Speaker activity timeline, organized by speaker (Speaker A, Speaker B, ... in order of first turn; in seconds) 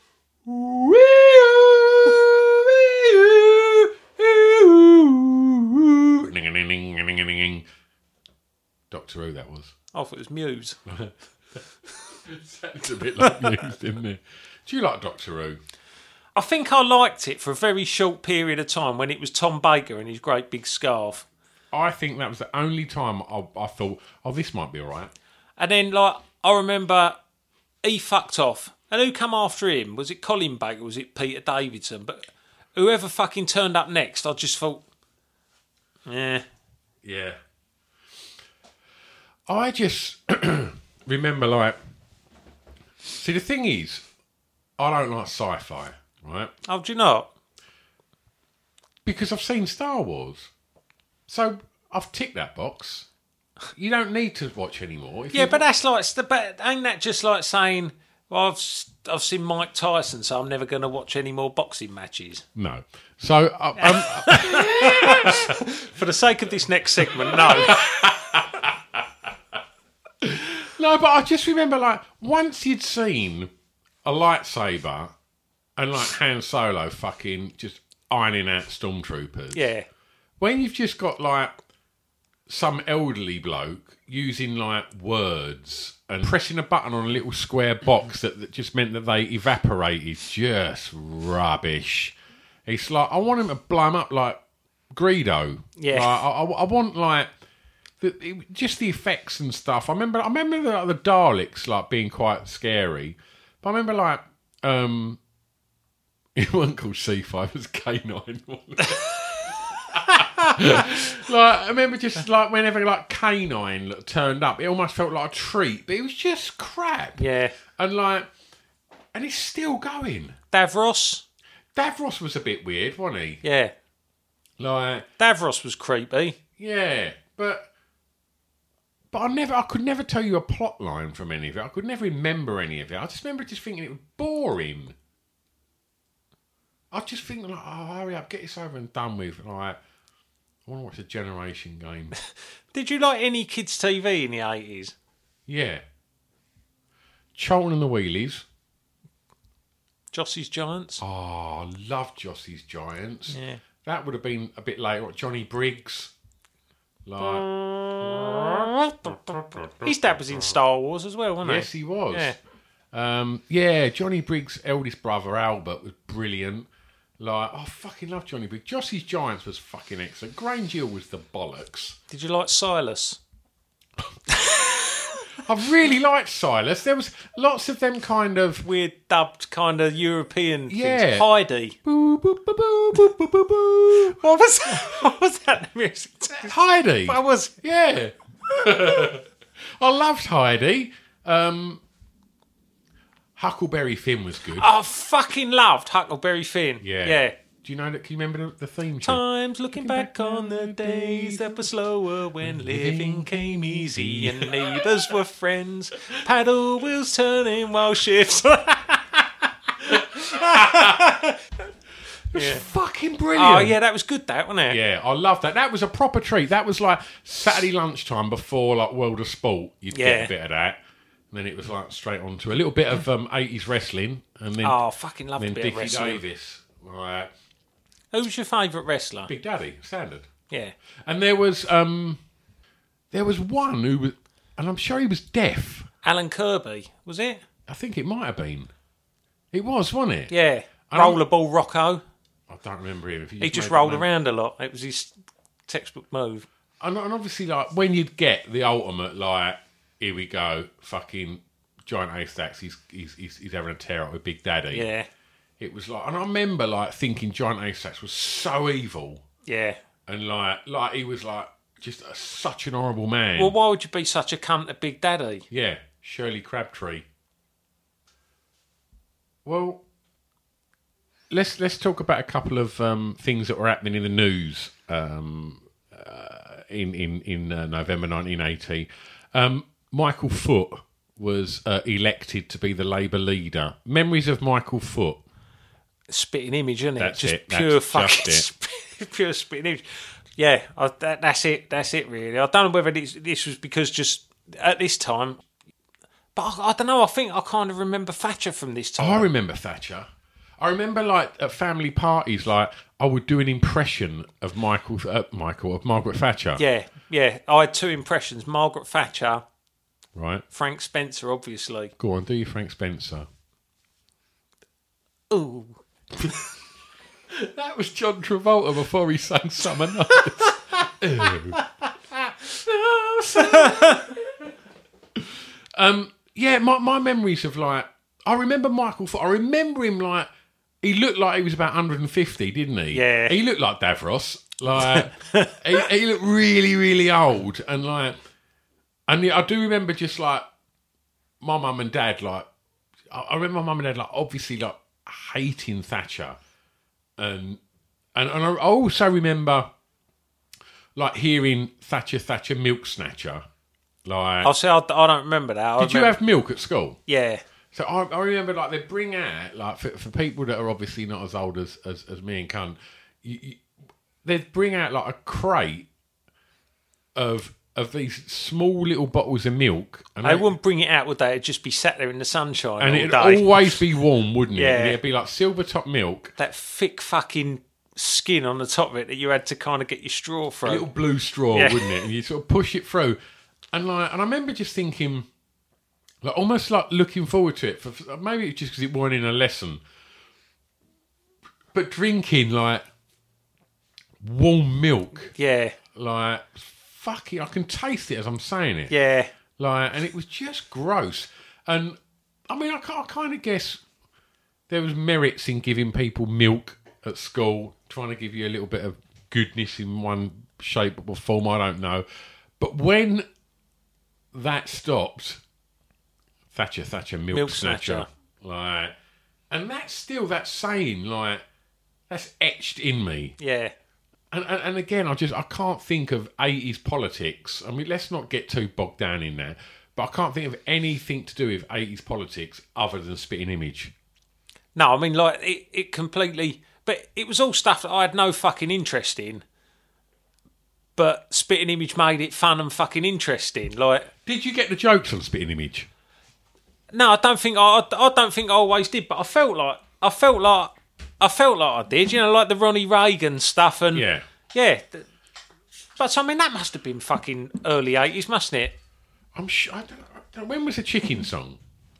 Speaker A: 0.4-7.7, 8.9-9.7, 10.9-11.1, 12.2-15.6, 21.7-25.1, 37.0-37.4, 39.5-41.8, 43.0-44.0, 44.8-46.5, 49.0-50.5, 51.3-53.1, 53.8-55.6, 62.5-65.6, 67.0-69.0, 70.2-73.5, 74.0-75.1, 75.8-79.7, 80.4-81.6, 82.5-92.1, 92.7-94.4, 94.9-97.3, 98.0-105.2, 106.3-117.2, 117.8-118.3, 119.1-120.4, 121.7-123.4, 124.6-125.1, 126.6-127.7, 129.1-134.9, 136.9-139.8, 140.7-142.1, 145.5-145.8, 147.3-148.4, 151.0-156.1, 157.1-160.5, 161.4-162.3, 162.9-166.7, 167.2-172.0, 175.4-178.7, 180.7-181.3, 181.8-185.1, 186.4-189.2, 189.8-191.8, 193.4-194.7, 196.8-199.2, 199.7-201.7, 202.4-204.9, 209.9-211.0, 212.3-213.8, 214.7-220.8, 221.3-224.8, 225.3-227.3, 229.3-230.3, 231.0-232.2, 233.1-235.9, 237.7-238.7, 239.5-240.3, 240.9-241.2, 242.5-244.1, 246.8-254.8, 255.6-259.2, 260.1-263.5, 265.5-267.1, 269.4-269.8, 271.3-285.2, 287.0-288.5, 299.0-300.1, 300.6-306.6, 310.1-310.4, 312.0-313.3, 317.3-321.6, 322.1-324.5, 325.1-330.3, 330.8-338.2, 339.1-340.4, 341.4-342.5, 343.1-346.4, 347.2-347.6, 348.1-349.7, 350.9-353.4, 354.0-354.5, 355.8-357.0, 357.7-363.6, 364.2-365.9, 367.1-370.5, 372.8-376.3, 380.6-383.2, 383.7-385.3, 386.2-389.8, 391.7-392.8, 394.2-395.3, 395.9-398.9, 399.6-402.0, 402.5-403.8, 404.7-412.0, 412.6-413.3, 414.3-415.4, 416.5-418.9, 419.5-421.4, 422.1-423.4, 424.3-433.9, 444.2-445.9, 453.9-454.2, 459.3-461.6
Speaker B: 9.9-10.8, 13.2-13.5, 16.3-21.2, 25.6-27.2, 27.8-34.8, 36.0-36.4, 46.7-47.3, 55.3-62.4, 63.8-67.8, 79.5-79.8, 95.8-96.2, 108.9-111.0, 117.2-117.5, 120.5-121.2, 123.4-123.7, 125.2-126.4, 142.7-144.9, 150.1-151.0, 153.3-153.6, 157.2-162.4, 172.1-173.2, 174.3-175.2, 178.6-181.8, 184.1-187.5, 194.6-197.3, 199.0-209.2, 209.9-211.4, 212.3-212.6, 213.3-214.8, 219.9-220.3, 224.6-226.2, 228.1-229.3, 236.0-237.4, 240.3-242.0, 243.4-245.1, 245.7-246.4, 254.7-255.1, 259.4-259.8, 263.4-265.4, 286.1-295.4, 296.3-299.3, 306.6-309.4, 310.5-311.9, 315.3-315.8, 320.1-320.4, 323.3-324.1, 332.9-333.4, 334.8-335.6, 354.4-356.2, 357.1-357.4, 370.2-373.8, 374.5-375.0, 376.4-380.9, 381.5-382.0, 395.4-395.8, 398.9-399.3, 417.3-418.1, 423.4-423.7, 434.7-439.4, 441.0-444.1, 446.9-455.1, 456.0-458.7